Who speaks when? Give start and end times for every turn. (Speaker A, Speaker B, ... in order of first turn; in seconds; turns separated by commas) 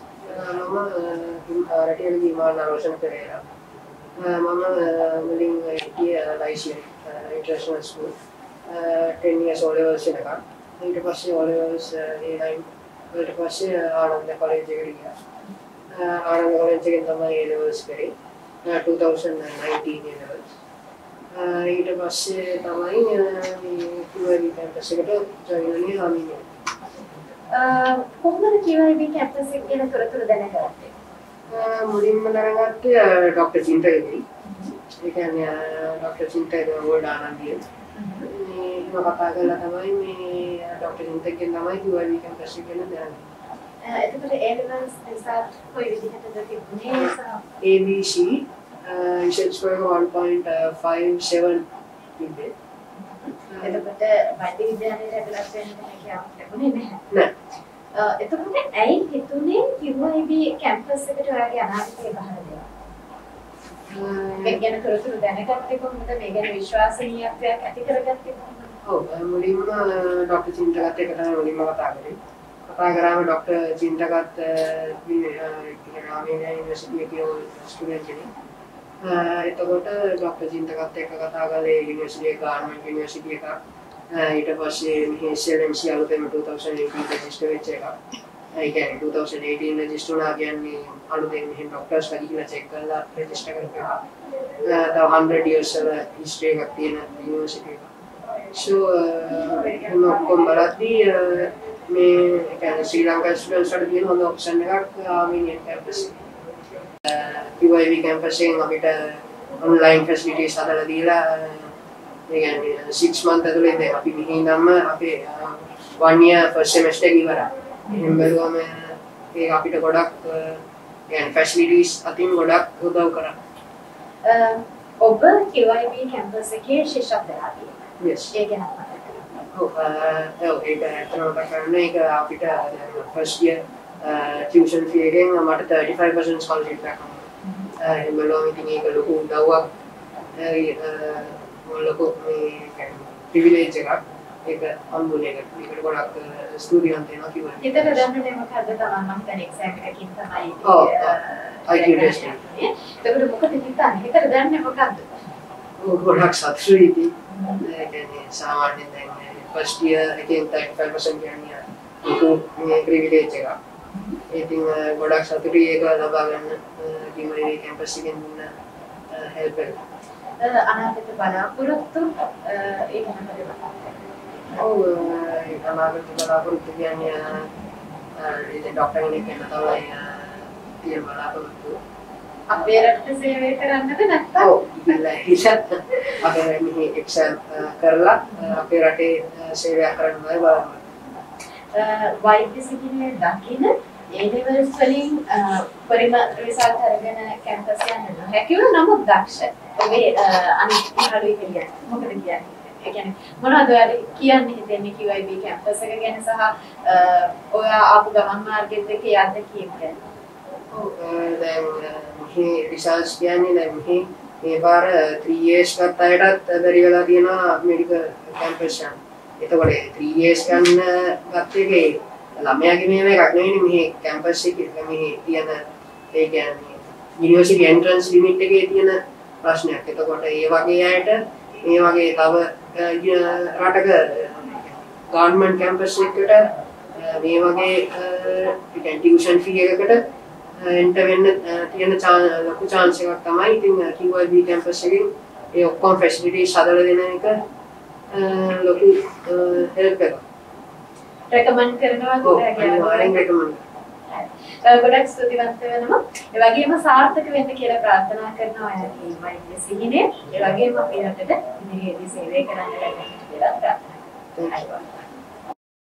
Speaker A: 0.3-3.4, Speaker A: 4.2-8.1, Speaker A: 8.7-15.1, Speaker A: 15.9-18.1, Speaker A: 18.6-20.5, Speaker A: 21.3-26.5, Speaker B: 27.5-30.9, Speaker A: 31.5-34.2, Speaker B: 34.4-34.8, Speaker A: 35.0-37.6, Speaker B: 38.0-38.3, Speaker A: 38.3-43.2, Speaker B: 43.8-47.4, Speaker A: 47.6-52.5, Speaker B: 53.0-57.1, Speaker A: 53.5-53.8, Speaker B: 57.9-62.7, Speaker A: 63.9-64.6, Speaker B: 64.4-68.7, Speaker A: 68.8-78.3, Speaker A: 79.0-88.0, Speaker A: 88.5-94.0, Speaker A: 94.6-97.9, Speaker A: 98.5-106.2, Speaker A: 107.0-111.8, Speaker A: 112.3-123.4, Speaker B: 124.2-129.4, Speaker A: 128.0-128.3, Speaker A: 129.5-139.7, Speaker A: 140.4-148.1, Speaker B: 147.6-155.1, Speaker A: 150.6-152.4, Speaker A: 155.8-163.6, Speaker B: 157.3-157.6, Speaker A: 164.3-168.5, Speaker A: 169.1-169.8, Speaker B: 170.4-173.9, Speaker A: 174.5-177.5, Speaker A: 178.2-181.8, Speaker B: 182.5-185.0, Speaker A: 184.4-190.8, Speaker B: 191.7-210.0, Speaker A: 210.7-236.4, Speaker A: 236.9-240.0, Speaker A: 240.6-247.4, Speaker A: 248.1-250.2, Speaker B: 251.3-253.2, Speaker A: 252.2-253.6, Speaker B: 254.1-263.8, Speaker B: 264.4-265.1